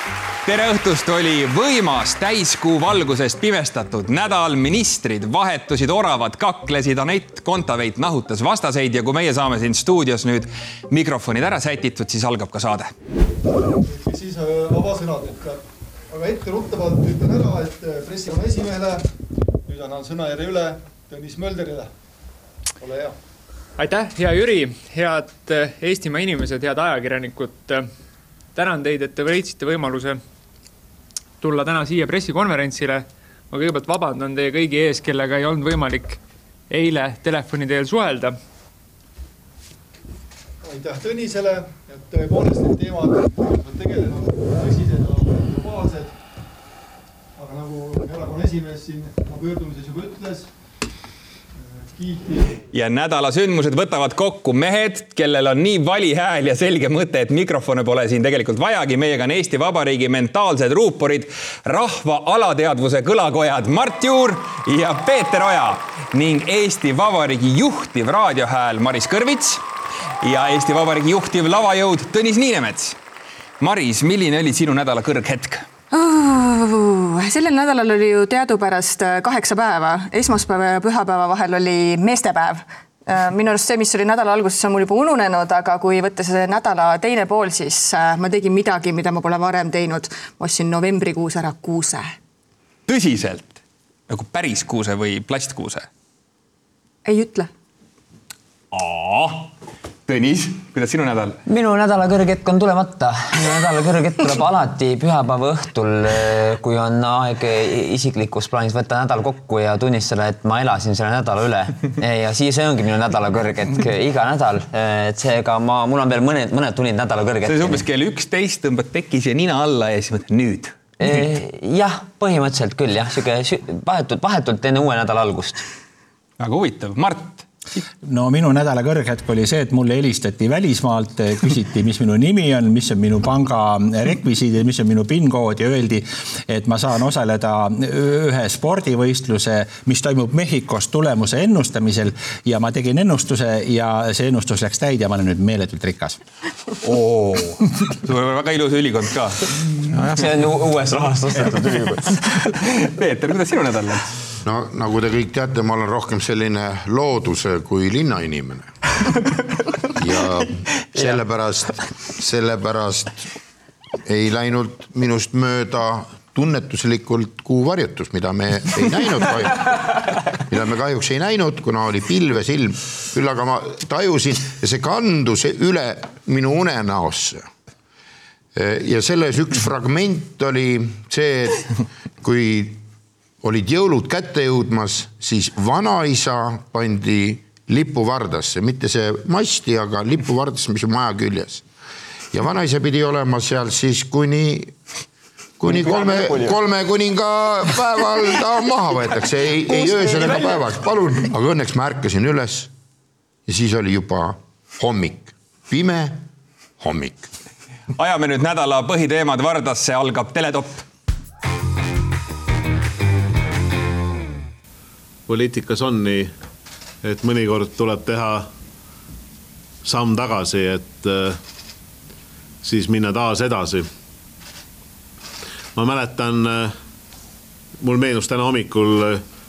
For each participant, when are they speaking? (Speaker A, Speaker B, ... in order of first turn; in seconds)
Speaker A: 0.5-12.9, 52.7-69.6, 70.2-73.0, 73.6-75.7, 92.9-93.6, 94.1-95.9, 98.7-99.5, 100.0-101.4, 117.5-120.8, 126.4-127.5, 146.8-150.3, 152.7-154.1, 208.0-210.8
Speaker B: 13.8-19.0, 19.6-21.9, 22.8-23.1, 40.6-46.1, 47.4-50.5, 51.6-52.6
Speaker C: 23.8-27.9, 28.5-30.2, 31.4-38.4
Speaker D: 75.9-92.1, 97.0-97.5
Speaker E: 101.5-117.8, 121.0-125.6, 150.1-152.3, 195.7-196.6, 199.7-200.6
Speaker F: 128.0-146.2
Speaker G: 154.4-158.7, 159.9-163.2, 164.1-177.5, 178.5-182.8, 183.4-191.6, 192.3-194.7, 195.6-202.7, 203.5-206.2, 206.8-207.3
Speaker H: 215.3-216.3, 217.0-218.5, 219.8-221.4, 222.6-223.9, 225.7-226.7, 227.8-229.2